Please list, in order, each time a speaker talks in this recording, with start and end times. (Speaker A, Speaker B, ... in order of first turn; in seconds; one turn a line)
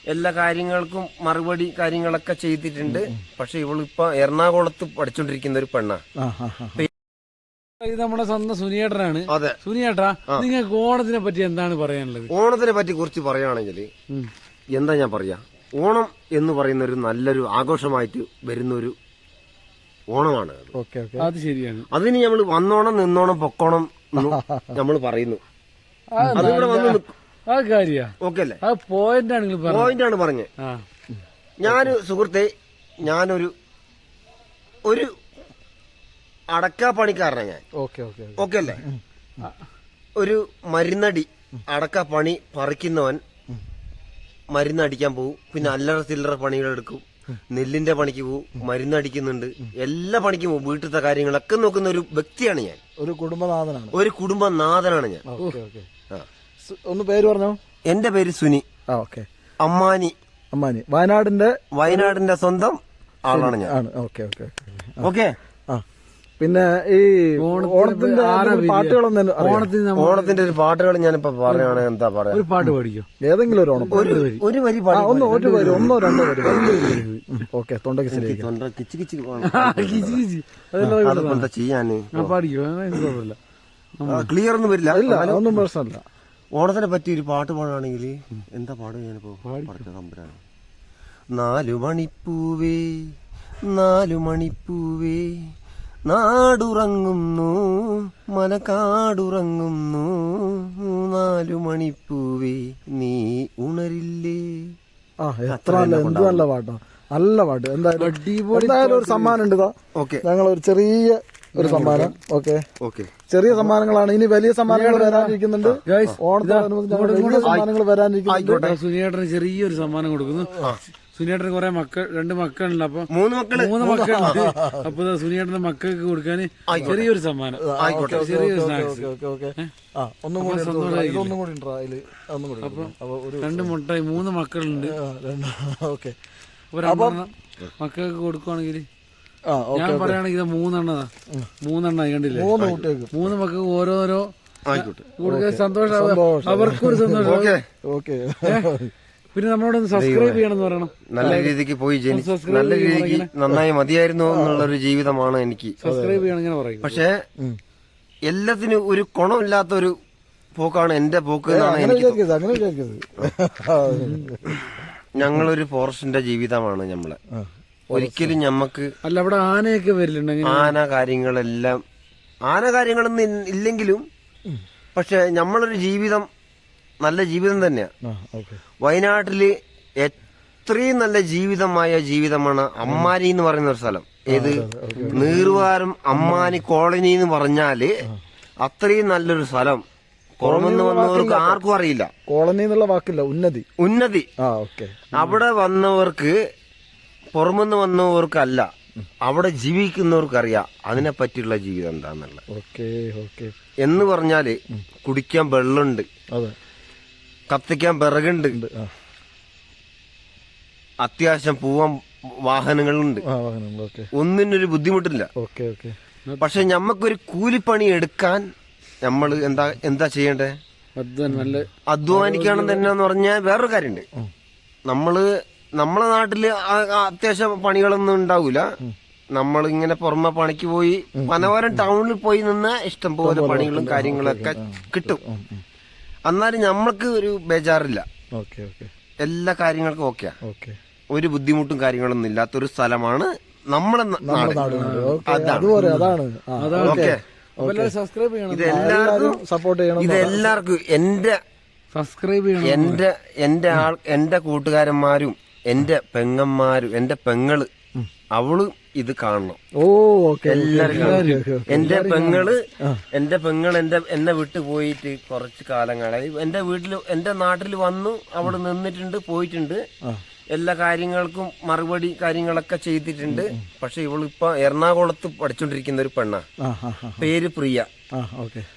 Speaker A: 0.1-6.0
Speaker B: 2.9-3.2
Speaker B: 6.2-6.8
Speaker C: 7.8-12.3
Speaker A: 9.3-9.6
Speaker A: 12.3-13.9
Speaker A: 14.7-18.9
Speaker A: 20.1-20.7
Speaker B: 20.7-21.3
Speaker C: 21.2-21.9
Speaker A: 21.9-25.4
Speaker B: 24.2-24.8
Speaker C: 26.1-29.9
Speaker A: 26.4-27.1
Speaker A: 28.2-28.6
Speaker A: 29.7-30.5
Speaker B: 31.1-31.9
Speaker A: 31.6-32.5
Speaker A: 33.0-33.5
Speaker A: 36.5-37.6
Speaker B: 37.8-39.5
Speaker A: 38.4-38.8
Speaker A: 40.2-43.2
Speaker A: 44.5-52.8
Speaker B: 53.0-54.0
Speaker A: 53.9-55.2
Speaker B: 55.3-55.9
Speaker B: 56.6-57.6
Speaker A: 57.9-58.6
Speaker B: 58.9-59.3
Speaker A: 59.6-60.1
Speaker B: 60.5-62.2
Speaker A: 61.7-63.7
Speaker B: 63.3-65.1
Speaker A: 65.0-65.3
Speaker B: 66.4-69.7
Speaker C: 67.4-70.5
Speaker A: 70.0-72.4
Speaker C: 71.5-73.1
Speaker B: 73.2-74.2
Speaker C: 73.7-74.4
Speaker A: 73.9-76.8
Speaker B: 74.9-78.5
Speaker C: 75.3-75.9
Speaker C: 76.4-77.2
Speaker A: 78.1-80.2
Speaker C: 79.4-81.5
Speaker A: 81.0-82.3
Speaker C: 82.1-83.4
Speaker C: 84.0-84.3
Speaker A: 84.0-85.5
Speaker B: 84.9-86.0
Speaker A: 86.5-90.4
Speaker C: 89.4-89.9
Speaker A: 91.3-93.1
Speaker A: 93.7-95.4
Speaker A: 96.1-104.7
Speaker B: 105.2-112.6
Speaker A: 105.5-106.4
Speaker C: 108.0-109.4
Speaker A: 110.0-110.2
Speaker C: 111.5-112.1
Speaker A: 112.8-113.1
Speaker B: 113.3-118.7
Speaker C: 114.7-115.4
Speaker A: 115.6-116.1
Speaker C: 115.9-117.5
Speaker A: 118.3-118.8
Speaker C: 118.5-129.7
Speaker A: 123.1-124.4
Speaker B: 123.8-124.9
Speaker A: 126.7-127.1
Speaker B: 127.5-133.7
Speaker A: 127.8-128.2
Speaker C: 130.4-131.4
Speaker C: 132.6-135.0
Speaker B: 134.8-136.2
Speaker C: 136.7-138.9
Speaker B: 136.8-137.2
Speaker B: 139.5-140.2
Speaker C: 139.8-141.1
Speaker C: 141.6-147.6
Speaker B: 142.3-143.1
Speaker A: 144.7-145.0
Speaker B: 145.2-147.3
Speaker A: 147.2-147.6
Speaker B: 147.8-148.9
Speaker C: 148.5-148.7
Speaker C: 149.3-151.6
Speaker A: 149.9-150.4
Speaker A: 151.1-155.8
Speaker C: 152.1-153.3
Speaker B: 154.3-154.7
Speaker C: 155.8-157.0
Speaker B: 155.8-156.3
Speaker A: 156.8-157.2
Speaker A: 158.3-159.9
Speaker A: 160.6-162.2
Speaker B: 161.5-164.7
Speaker C: 163.9-164.2
Speaker A: 165.2-167.2
Speaker B: 167.3-168.4
Speaker A: 167.9-168.9
Speaker C: 169.1-170.8
Speaker A: 170.4-171.8
Speaker A: 172.5-174.0
Speaker A: 174.9-176.3
Speaker A: 177.0-177.9
Speaker B: 178.0-178.6
Speaker A: 178.8-187.9
Speaker B: 182.9-183.1
Speaker B: 184.3-186.6
Speaker A: 188.6-189.8
Speaker A: 190.4-192.1
Speaker B: 190.4-191.6
Speaker B: 192.3-193.7
Speaker A: 193.8-194.3
Speaker B: 194.4-195.4
Speaker A: 195.1-196.3
Speaker A: 197.3-198.7
Speaker A: 199.2-202.4
Speaker B: 202.5-203.5
Speaker A: 203.8-206.1
Speaker A: 207.5-208.6
Speaker B: 208.5-208.9
Speaker A: 211.0-213.2
Speaker B: 213.3-214.1
Speaker A: 214.1-215.3
Speaker B: 215.4-216.0
Speaker A: 216.4-218.4
Speaker A: 219.0-220.6
Speaker C: 221.0-222.9
Speaker B: 221.3-221.6
Speaker A: 221.9-224.1
Speaker A: 224.9-228.7
Speaker A: 229.3-235.2
Speaker B: 231.2-231.9
Speaker B: 233.2-235.6
Speaker A: 236.3-238.1
Speaker B: 238.4-238.9
Speaker A: 239.2-240.3
Speaker B: 240.4-240.8
Speaker A: 241.1-245.8
Speaker B: 244.2-247.9
Speaker C: 244.6-245.2
Speaker C: 245.8-248.9
Speaker A: 246.8-247.2
Speaker A: 248.5-249.4
Speaker B: 248.7-250.5
Speaker A: 250.0-251.4
Speaker C: 251.9-253.0
Speaker A: 252.6-257.7
Speaker A: 258.3-259.6
Speaker B: 259.8-261.9
Speaker A: 260.5-262.6
Speaker C: 260.8-262.5
Speaker A: 263.1-269.8
Speaker A: 270.5-276.4
Speaker B: 273.3-273.6
Speaker B: 276.6-277.3
Speaker A: 277.2-277.9
Speaker B: 278.1-278.7